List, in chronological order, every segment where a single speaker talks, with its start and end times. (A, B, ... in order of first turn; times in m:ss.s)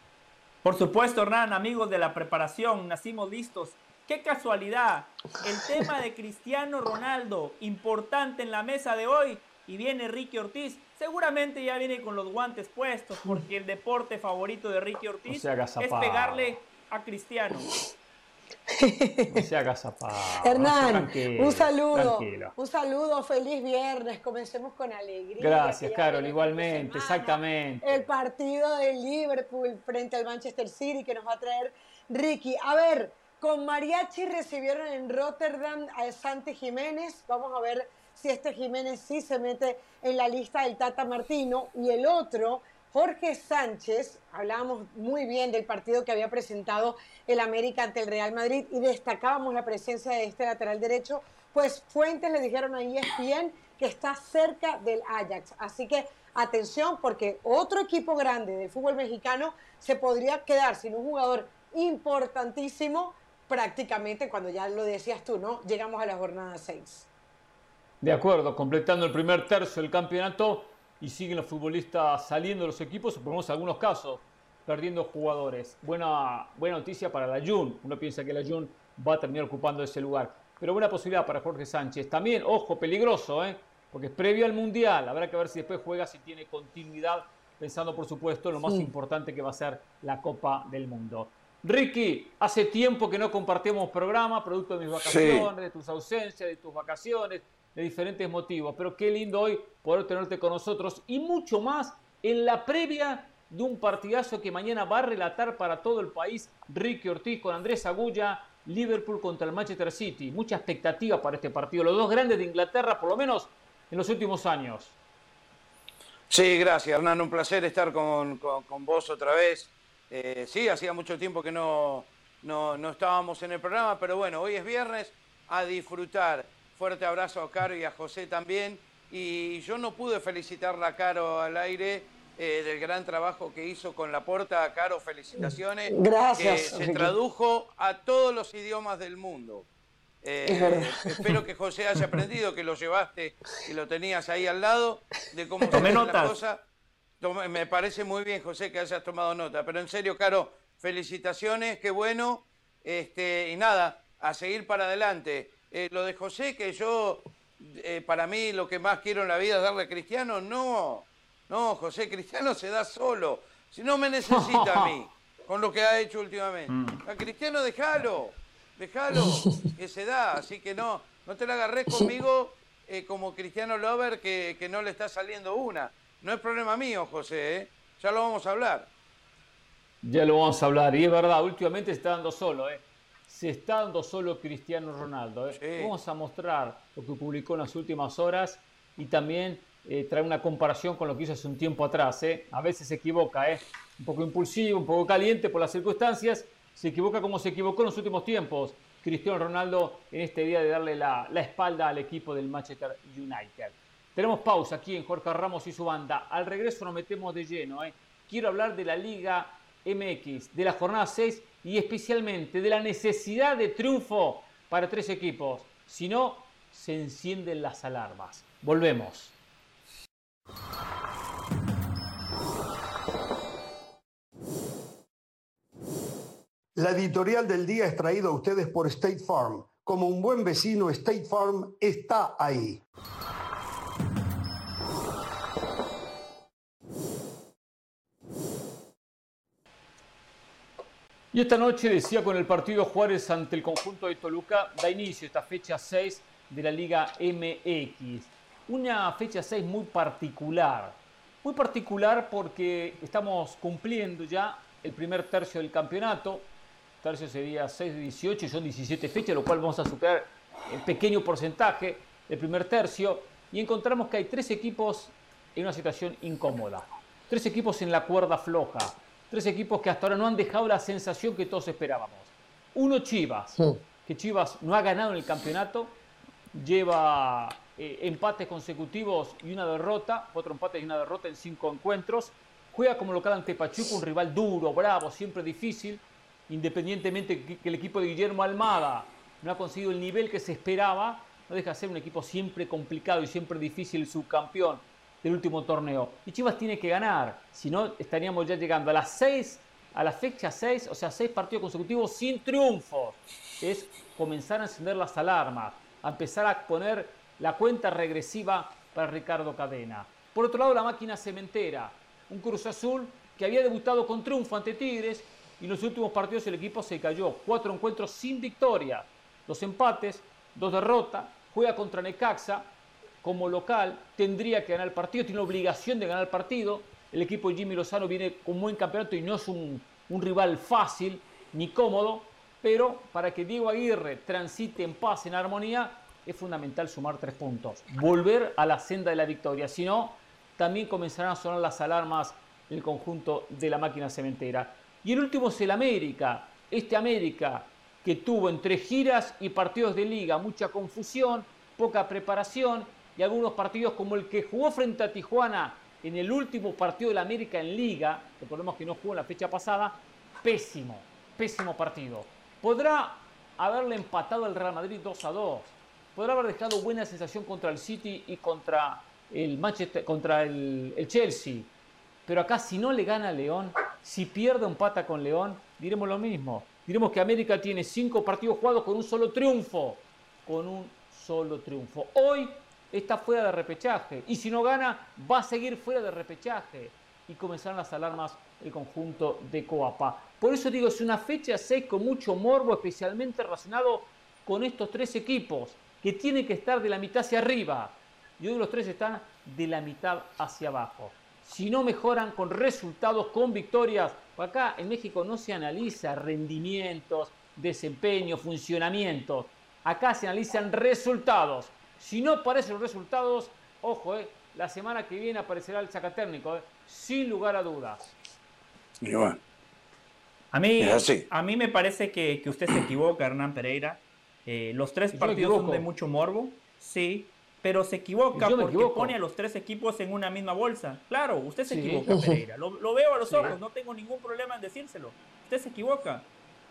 0:00.6-0:17.7 A
0:15.3-0:16.6 B
0:18.7-0:19.5 C
0:19.3-0:22.6 B
0:20.4-1:07.1 C
0:25.4-0:28.1 B
1:08.0-1:55.0 B
1:35.0-1:35.5 D
1:56.3-2:19.7 D
2:15.4-2:17.2 C
2:20.2-2:26.6 D
2:20.4-2:21.3 C
2:25.7-2:26.4 A
2:27.2-2:58.9 D
2:44.3-2:45.0 B
2:46.7-2:47.0 A
3:00.0-3:39.3 B
3:05.5-3:05.9 D
3:46.8-3:52.8 E
4:01.3-4:16.5 B
4:17.0-4:36.0 B
4:36.5-6:11.7 B
6:12.3-6:58.1 B
6:59.0-6:59.4 D
7:00.5-7:16.3 A
7:00.8-7:01.3 D
7:05.1-7:05.9 B
7:08.3-7:09.2 B
7:11.7-7:12.0 B
7:12.1-7:12.4 C
7:13.2-7:13.6 B